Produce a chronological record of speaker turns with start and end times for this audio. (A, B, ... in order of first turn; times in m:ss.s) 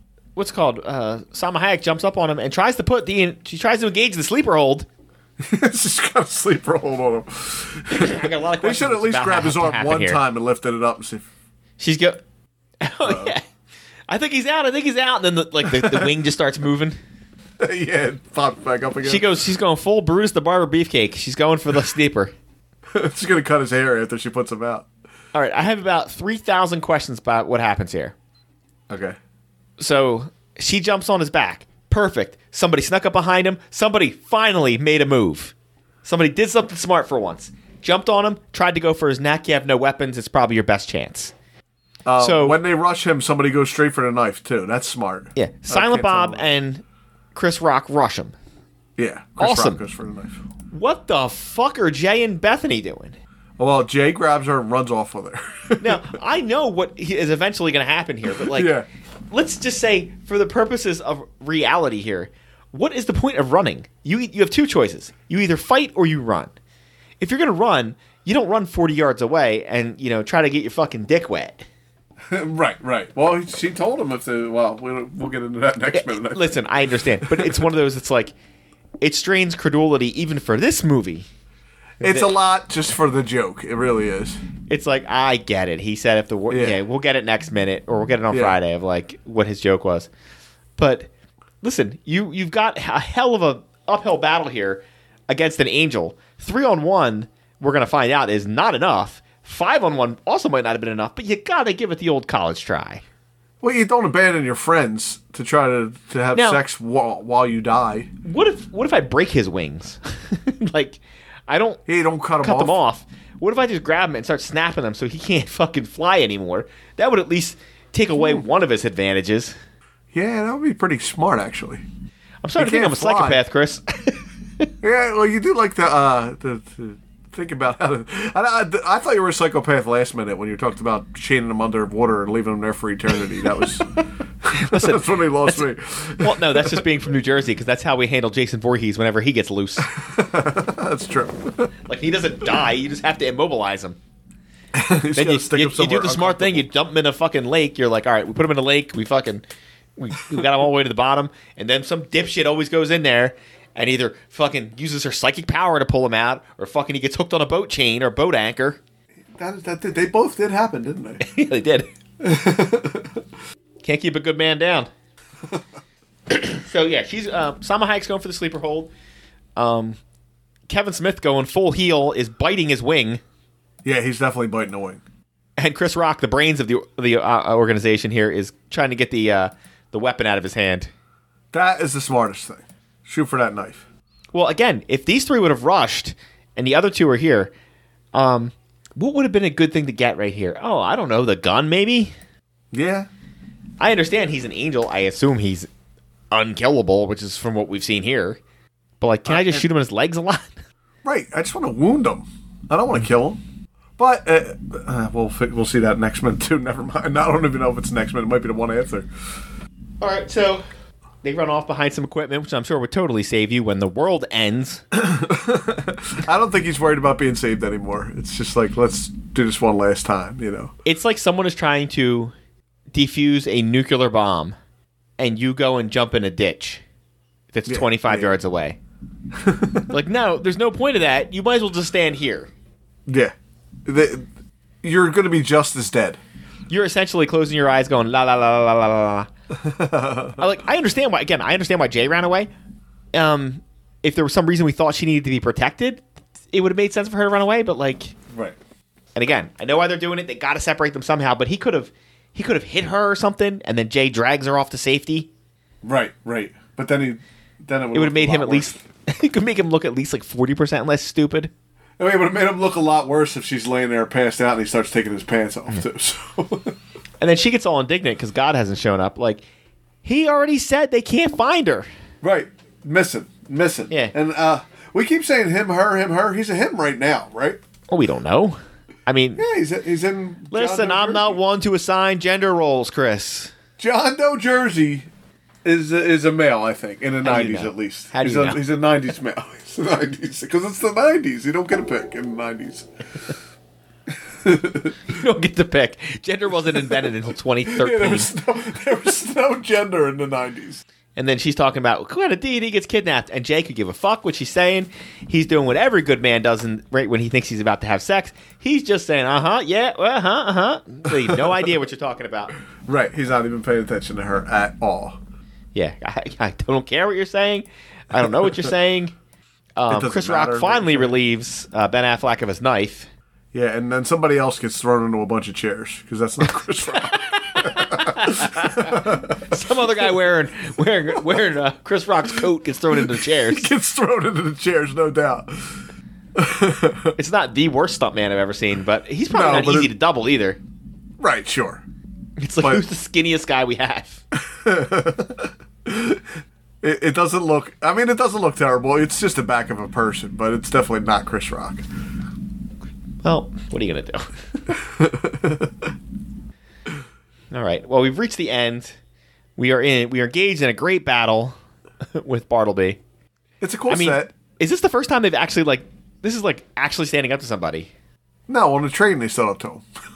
0:00.4-0:04.9 A
0:05.4-0:11.2 B
0:07.9-0:10.2 A
0:11.8-0:12.2 A
0:12.8-0:13.4 A
0:13.0-0:13.3 B
0:14.1-0:17.0 A
0:15.7-0:16.1 B
0:17.6-0:19.2 B
0:19.0-0:22.3 A
0:22.9-0:24.8 B
0:25.3-0:28.1 A
0:28.9-0:29.2 B
0:29.8-0:41.3 A
0:42.0-0:46.5 B
0:42.2-0:42.6 A
0:45.4-0:46.8 A
0:47.3-0:48.3 A
0:49.0-0:50.4 B
0:49.4-0:49.8 A
0:50.7-0:53.2 A
0:53.6-0:56.1 B
0:55.8-0:58.7 A
0:58.4-0:58.8 B
0:59.3-1:06.5 A
1:07.2-1:11.6 A
1:12.3-1:17.6 B
1:15.9-1:18.3 A
1:19.0-1:21.2 A
1:22.0-1:24.4 B
1:22.0-1:22.3 A
1:24.7-1:30.1 A
1:26.5-1:26.8 B
1:28.3-1:28.6 B
1:30.8-1:31.1 A
1:31.6-1:43.0 A
1:43.6-1:48.1 B
1:46.3-1:46.6 A
1:48.2-1:51.8 A
1:51.8-1:52.8 B
1:52.4-1:59.5 A
1:58.1-1:58.4 B
2:00.1-2:01.8 B
2:02.4-2:04.7 A
2:02.6-2:03.4 B
2:04.8-2:13.9 B
2:14.4-2:16.8 B
2:14.5-2:15.6 A
2:16.2-2:19.9 A
2:19.9-2:21.7 B
2:21.9-2:24.0 A
2:24.7-2:26.7 B
2:25.2-2:29.4 A
2:30.0-2:38.8 A
2:39.4-2:41.2 B
2:41.2-2:41.9 A
2:42.2-2:43.2 B
2:43.8-2:44.9 A
2:46.3-2:48.9 A
2:49.6-2:50.0 A
2:50.7-2:53.2 A
2:53.8-2:55.0 B
2:55.6-3:00.9 A
3:01.5-3:03.8 B
3:04.3-3:07.5 A
3:08.1-3:12.1 A
3:12.7-3:13.1 B
3:13.8-3:15.7 A
3:16.3-3:18.4 A
3:19.0-3:20.5 A
3:19.2-3:19.6 B
3:21.0-3:23.4 B
3:24.0-3:29.1 B
3:30.0-3:30.6 A
3:31.2-3:34.8 A
3:34.9-3:40.7 B
3:40.8-3:42.3 A
3:42.9-3:44.5 A
3:45.2-3:46.8 A
3:47.5-3:48.8 A
3:47.6-3:48.4 B
3:49.3-3:49.9 B
3:49.9-3:52.5 A
3:53.1-3:53.3 B
3:53.8-3:54.3 B
3:54.8-3:56.2 B
3:56.7-3:59.3 A
3:59.5-4:00.4 B
4:00.4-4:02.5 A
4:03.1-4:08.2 A
4:08.3-4:08.6 B
4:09.2-4:15.3 A
4:15.8-4:18.8 B
4:17.9-4:21.5 A
4:22.0-4:26.8 B
4:27.2-4:29.4 A
4:30.0-4:31.9 A
4:32.2-4:37.6 B
4:37.9-4:39.4 A
4:39.4-4:41.4 B
4:40.5-4:43.5 A
4:43.8-4:45.1 B
4:45.6-4:52.9 B
4:47.2-4:48.6 A
4:54.4-4:54.9 B
4:55.1-4:58.3 A
4:57.6-5:00.8 B
5:01.2-5:12.6 A
5:12.9-5:15.2 B
5:15.7-5:19.1 A
5:19.8-5:23.1 A
5:19.9-5:21.1 B
5:23.5-5:29.3 B
5:27.0-5:33.7 A
5:32.9-5:35.8 B
5:36.4-5:37.1 B
5:37.2-5:40.6 A
5:39.3-5:39.9 B
5:41.2-5:41.8 B
5:42.4-5:44.2 A
5:44.4-5:46.3 B
5:46.8-5:51.8 B
5:53.2-5:54.7 A
5:54.8-5:55.9 B
5:57.5-5:59.0 A
5:59.6-6:01.6 A
6:02.1-6:03.0 A
6:03.6-6:04.3 B
6:03.9-6:07.9 A
6:08.5-6:09.8 B